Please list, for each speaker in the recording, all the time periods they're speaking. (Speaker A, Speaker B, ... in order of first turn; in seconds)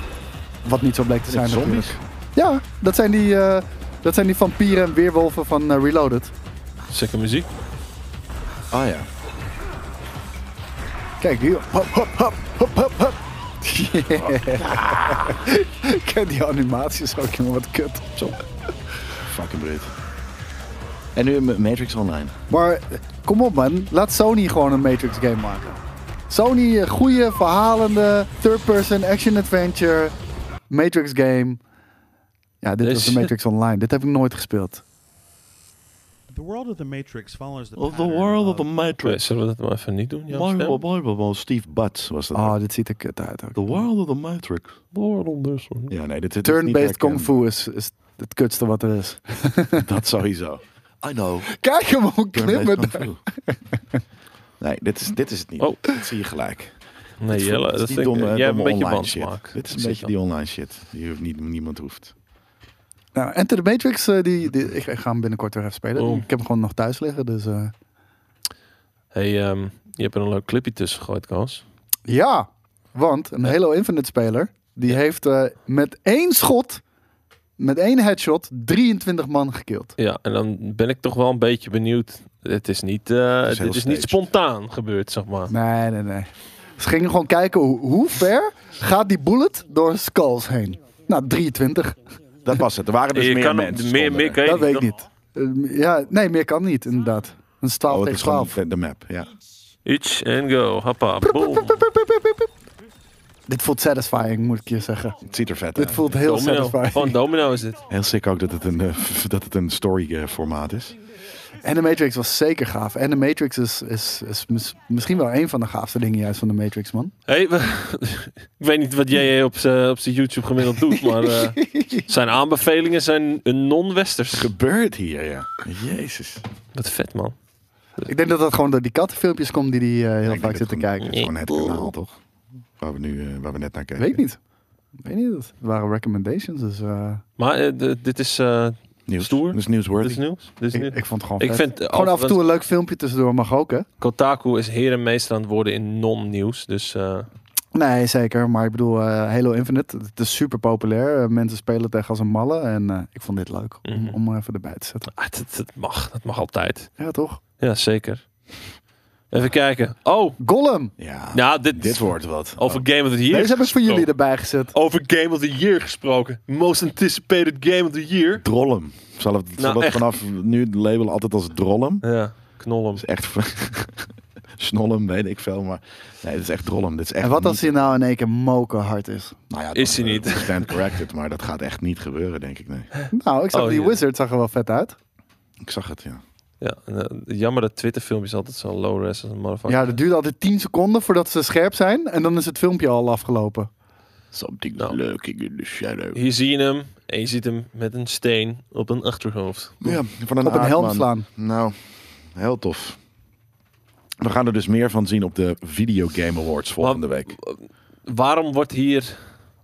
Speaker A: 0.6-6.3, 11.2-18.3, 22.5-25.8, 26.3-30.1, 30.7-31.6, 32.6-34.8, 42.3-43.8, 46.4-49.9, 51.5-53.1, 63.1-67.7, 72.1-76.8, 77.6-79.9, 85.5-92.0, 94.4-98.6, 101.2-102.5, 103.5-107.2, 111.6-117.1, 121.3-122.0, 128.0-131.3, 134.0-134.4, 135.0-137.2, 140.7-143.9, 147.7-155.1, 157.0-157.4, 160.4-160.9, 163.3-164.7, 177.2-179.4, 183.1-184.9, 189.7-193.7, 200.4-201.3
Speaker B: 1.3-2.0, 8.7-9.1, 14.5-15.4, 19.1-19.9, 21.1-22.3, 37.8-39.2, 40.3-42.6, 43.5-44.8, 45.9-47.3, 49.8-51.5, 52.3-53.2, 54.6-56.7, 57.3-62.1, 83.4-84.2, 92.4-94.4, 97.9-99.3, 105.2-106.2, 107.9-111.0, 124.3-126.4, 130.2-132.2, 132.8-134.2, 139.1-140.2, 161.0-162.9, 168.4-172.0, 172.9-174.1, 174.6-177.8, 179.5-182.9, 185.6-186.2, 194.3-196.2, 199.8-203.0, 204.2-207.3
Speaker C: 6.9-7.5, 32.8-33.3, 39.0-40.8, 44.9-45.9, 57.2-60.1, 66.0-66.2, 69.1-71.6, 80.0-85.5, 93.1-94.9, 99.8-101.8, 106.2-107.8, 117.3-124.5, 126.7-127.3, 131.0-131.9, 137.4-142.4, 144.0-147.3, 153.9-154.2, 155.1-156.9, 157.6-158.5, 159.3-160.4, 161.3-164.1, 164.7-168.4, 169.6-170.1, 172.0-173.0, 179.7-180.8, 183.0-184.0, 186.6-189.9, 196.1-200.0, 206.8-209.3
Speaker D: 36.3-38.7